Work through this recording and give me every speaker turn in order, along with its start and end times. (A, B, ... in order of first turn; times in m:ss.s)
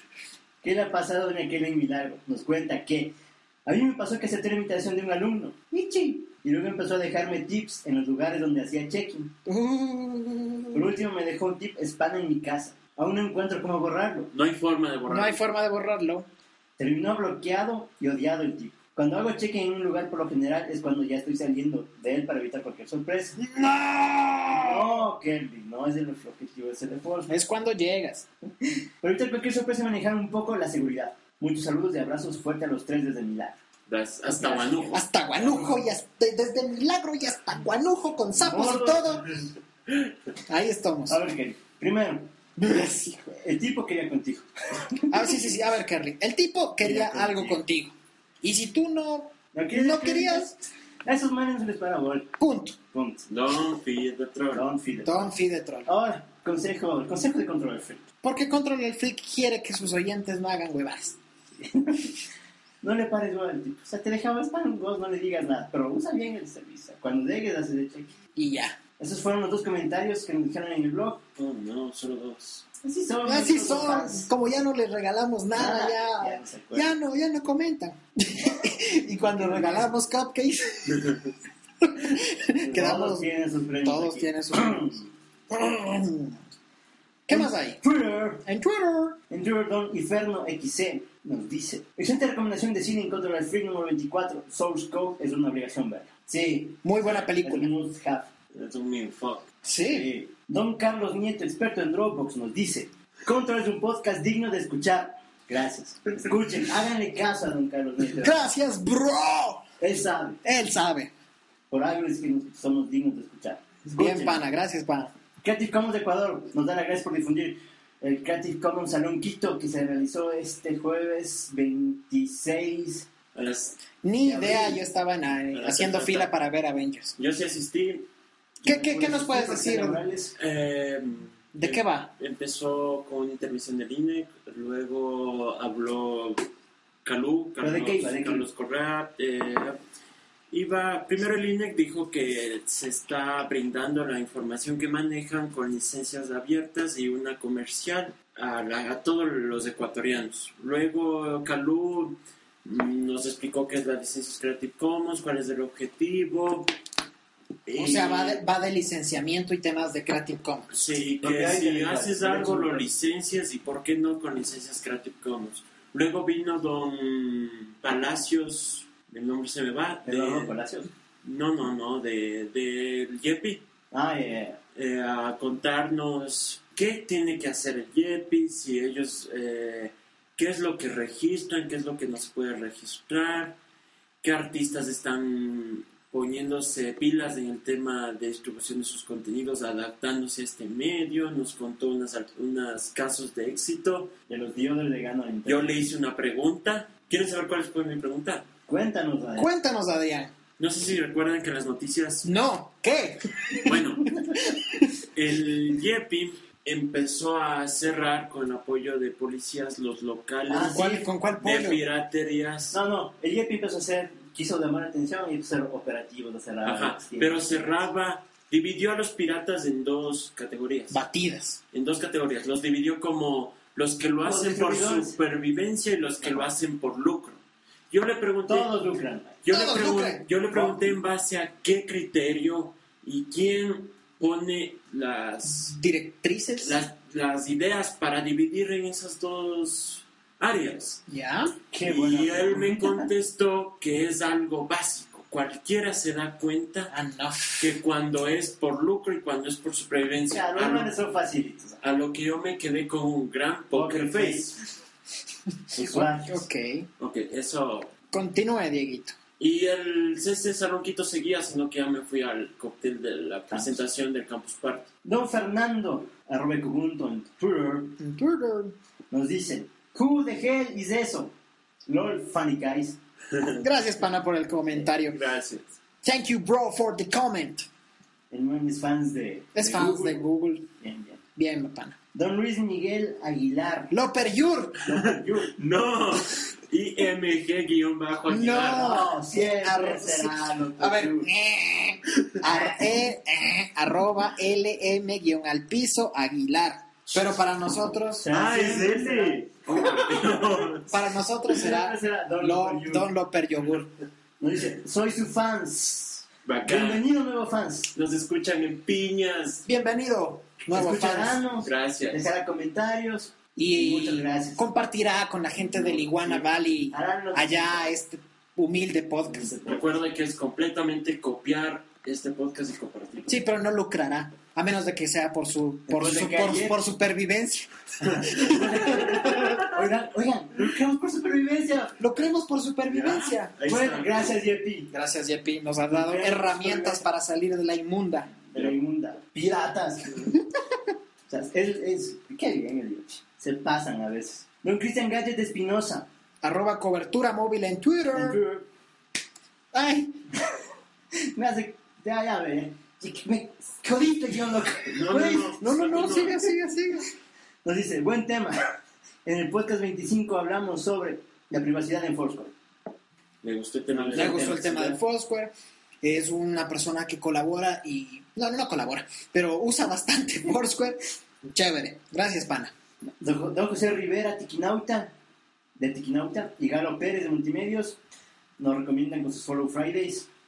0:00.6-0:03.1 A
0:03.6-0:09.3 A
0:09.4-0:10.9 B
0:10.7-0:14.3 A
0:14.3-0:15.4 C
0:15.1-0:16.3 B
0:16.8-0:23.4 A
0:23.4-0:25.1 B
0:24.5-0:27.3 A
0:27.3-0:28.2 B
0:29.0-0:33.6 A
0:33.9-0:35.0 C
0:34.3-0:35.7 A
0:34.9-0:39.3 B
0:38.4-0:39.2 A
0:40.5-0:41.2 B
0:41.1-0:42.3 A
0:42.6-0:43.4 B
0:43.4-0:45.4 A
0:45.1-0:50.6 B
0:46.8-0:47.6 A
0:49.5-0:50.5 A
0:51.0-0:52.3 A
0:52.4-0:52.8 B
0:52.9-0:53.3 A
0:53.3-0:54.6 C
0:54.5-0:55.3 A
0:55.0-0:55.9 B
0:55.9-0:58.0 A
0:58.2-1:01.2 B
1:01.6-1:02.2 A
1:02.8-1:08.1 A
1:08.4-1:08.8 B
1:09.0-1:11.2 A
1:11.4-1:12.6 C
1:12.8-1:14.3 A
1:13.2-1:21.1 B
1:15.6-1:16.9 A
1:19.3-1:19.9 A
1:21.8-1:23.3 B
1:22.6-1:25.1 A
1:23.8-1:25.0 B
1:25.5-1:26.4 B
1:27.3-1:27.8 B
1:27.3-1:28.4 A
1:28.4-1:29.2 B
1:29.3-1:36.9 A
1:36.8-1:37.7 B
1:37.4-1:38.3 A
1:38.5-1:39.5 C
1:39.6-1:40.1 B
1:39.9-1:48.4 A
1:48.2-1:49.6 B
1:49.8-1:50.4 A
1:50.4-1:51.1 B
1:51.7-1:54.4 A
1:53.9-1:55.1 B
1:55.4-2:03.1 A
2:03.3-2:03.8 C
2:04.0-2:07.1 B
2:04.2-2:04.8 A
2:05.5-2:06.3 C
2:07.2-2:08.1 C
2:08.6-2:10.3 A
2:08.6-2:10.0 B
2:10.4-2:16.4 C
2:11.5-2:12.1 B
2:17.0-2:19.8 C
2:17.6-2:18.4 A
2:20.5-2:36.7 C
2:37.6-2:38.4 C
2:37.8-2:40.8 B
2:40.7-2:50.5 C
2:41.2-2:42.9 A
2:50.0-2:50.9 A
2:51.2-2:53.6 C
2:53.9-2:54.6 A
2:54.7-3:03.6 C
3:04.2-3:14.1 C
3:14.3-3:15.8 A
3:15.4-3:18.5 C
3:18.7-3:19.5 A
3:19.4-3:20.3 B
3:20.6-3:22.3 C
3:22.2-3:23.7 B
3:23.6-3:24.2 C
3:24.6-3:24.9 B
3:25.1-3:32.8 C
3:30.5-3:31.1 A
3:30.6-3:31.8 B
3:32.7-3:37.7 A
3:36.6-3:41.0 C
3:40.9-3:41.6 B
3:41.7-3:48.7 C
3:44.2-3:45.2 A
3:48.5-3:49.4 A
3:49.4-3:55.8 C
3:49.5-3:50.2 B
3:50.5-3:50.9 A
3:55.6-3:56.8 B
3:56.6-4:01.0 C
4:01.1-4:01.6 B
4:01.7-4:03.1 A
4:01.8-4:06.9 C
4:06.9-4:07.7 B
4:07.6-4:10.9 C
4:10.3-4:11.8 A
4:11.8-4:14.6 C
4:13.7-4:14.6 A
4:15.7-4:16.1 C
4:15.8-4:16.4 A
4:15.8-4:16.9 B
4:17.0-4:17.9 C
4:18.1-4:19.2 B
4:19.4-4:24.9 C
4:23.5-4:23.8 A
4:25.0-4:28.0 A
4:28.0-4:28.7 B
4:29.1-4:31.3 A
4:31.9-4:33.0 A
4:33.3-4:33.6 C
4:33.6-4:35.2 B
4:35.1-4:35.7 C
4:36.0-4:37.6 B
4:38.3-4:40.2 A
4:39.6-4:40.7 B
4:40.8-4:41.2 A
4:41.4-4:42.0 B
4:42.1-4:43.9 A
4:43.9-4:44.8 B
4:44.8-4:45.5 A
4:45.4-4:49.1 C
4:48.3-4:58.3 B
4:48.5-4:51.3 A
4:57.1-4:57.4 C
4:58.2-5:00.5 A
4:58.3-5:00.9 C
5:00.9-5:03.9 B
5:01.5-5:03.1 A
5:04.4-5:07.9 A
5:06.4-5:07.0 C
5:07.9-5:09.6 C
5:09.6-5:11.4 B
5:10.7-5:14.7 A
5:11.6-5:12.2 C
5:13.6-5:19.5 B
5:15.8-5:17.9 A
5:19.3-5:20.0 A
5:19.6-5:23.4 C
5:23.3-5:29.6 B
5:25.9-5:26.8 A
5:28.3-5:29.6 C
5:28.3-5:32.0 A
5:32.0-5:33.6 B
5:32.9-5:34.3 C
5:33.6-5:34.9 A
5:34.9-5:38.3 B
5:35.9-5:37.0 A
5:38.5-5:40.4 A
5:41.3-5:46.1 A
5:46.4-5:48.4 B
5:48.1-5:48.7 A
5:49.7-5:50.2 B
5:51.1-5:55.6 A
5:54.9-5:56.4 C
5:55.6-5:57.1 B
5:57.6-5:58.6 A
5:59.2-6:02.5 A
6:03.4-6:04.6 C
6:03.9-6:05.0 A
6:04.1-6:12.7 B
6:13.2-6:15.1 A
6:15.8-6:18.0 A
6:18.6-6:20.3 A